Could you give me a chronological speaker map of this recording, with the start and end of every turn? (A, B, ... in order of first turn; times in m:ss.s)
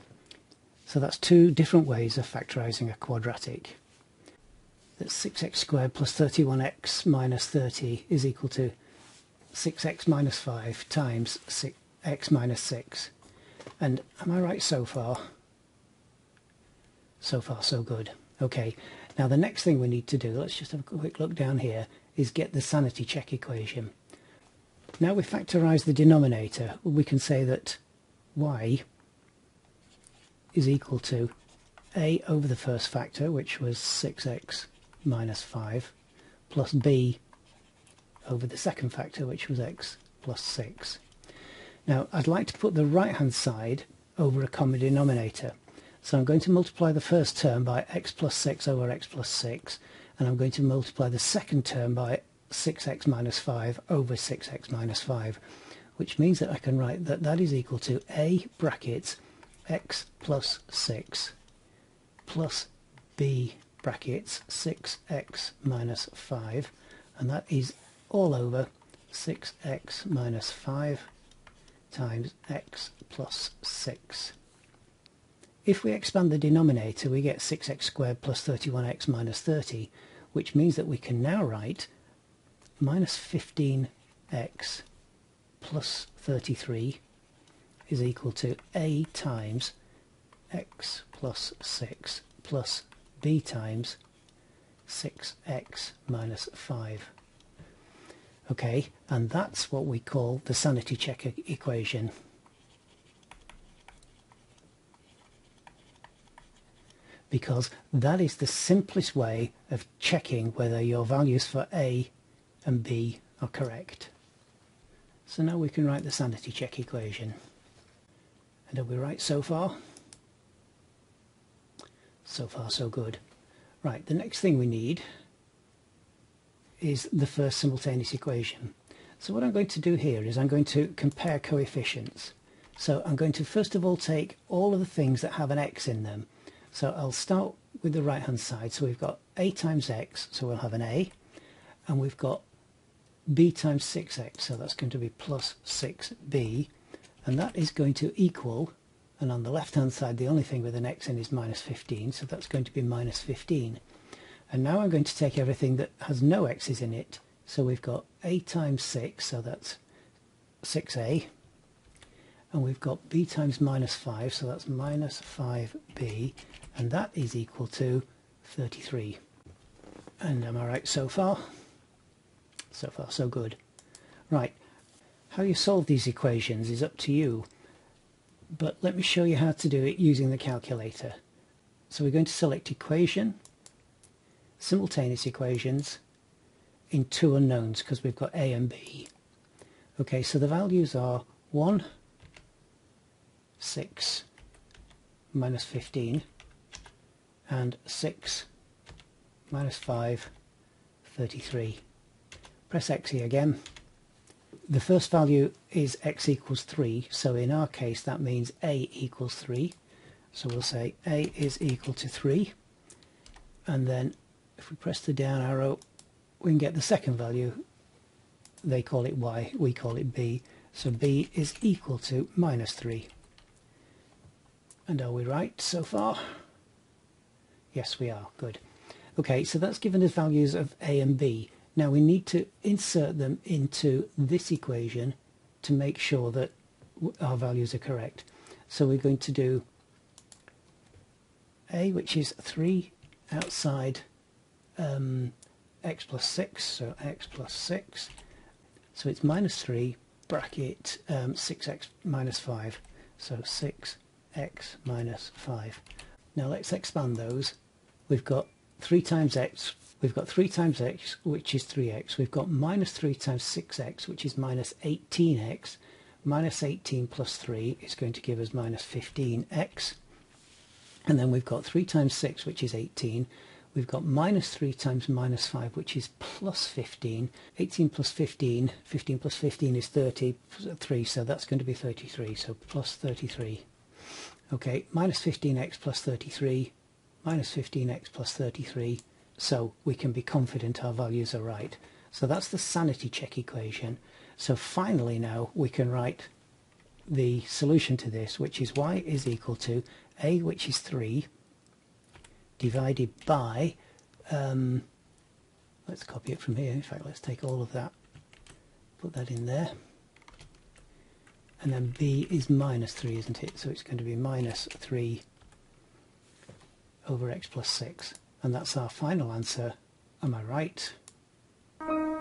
0:00.8-0:03.8 A
0:05.0-0:08.7 A
0:09.5-0:13.1 A
0:13.8-0:15.2 A
0:17.2-0:23.9 A
0:25.0-0:27.8 A
0:28.4-0:28.8 A
0:30.5-0:31.3 A
0:31.9-0:35.9 A
0:36.5-0:37.2 A
0:38.2-0:41.0 A
0:41.8-0:55.4 A
0:56.0-1:01.3 A
1:02.2-1:11.1 A
1:11.9-1:14.3 A
1:15.6-1:21.9 A
1:22.8-1:24.8 A
1:25.6-1:27.0 A
1:27.9-1:29.7 A
1:30.5-1:34.0 A
1:34.9-1:37.1 A
1:38.5-1:42.1 A
1:47.3-1:52.1 A
1:52.6-1:54.1 A
1:55.3-1:57.3 A
1:58.7-1:59.8 A
2:02.2-2:03.2 A
2:03.8-2:05.0 A
2:06.8-2:21.1 A
2:21.9-2:22.4 A
2:23.3-2:26.7 A
2:27.2-2:33.8 A
2:34.5-2:39.8 A
2:40.6-2:41.3 A
2:42.5-2:49.2 A
2:50.2-2:51.5 A
2:52.7-2:53.6 A
2:54.3-2:54.6 A
2:55.3-2:57.5 A
2:58.5-3:01.2 A
3:01.9-3:03.4 A
3:04.6-3:06.0 A
3:06.9-3:09.1 A
3:10.0-3:11.8 A
3:13.6-3:14.2 A
3:15.3-3:16.2 A
3:17.5-3:18.5 A
3:19.5-3:20.3 A
3:21.0-3:21.8 A
3:22.7-3:23.6 A
3:24.7-3:29.7 A
3:30.3-3:32.5 A
3:33.7-3:35.8 A
3:36.4-3:37.6 A
3:38.6-3:43.1 A
3:44.9-3:46.4 A
3:47.7-3:48.6 A
3:49.2-3:59.6 A
4:01.7-4:04.0 A
4:04.8-4:08.1 A
4:08.9-4:15.8 A
4:16.3-4:17.6 A
4:18.1-4:30.0 A
4:31.0-4:43.6 A
4:44.5-4:46.7 A
4:47.2-4:56.3 A
4:57.1-5:01.3 A
5:02.6-5:03.8 A
5:04.3-5:04.9 A
5:05.8-5:07.9 A
5:09.0-5:09.7 A
5:11.6-5:15.2 A
5:17.0-5:21.0 A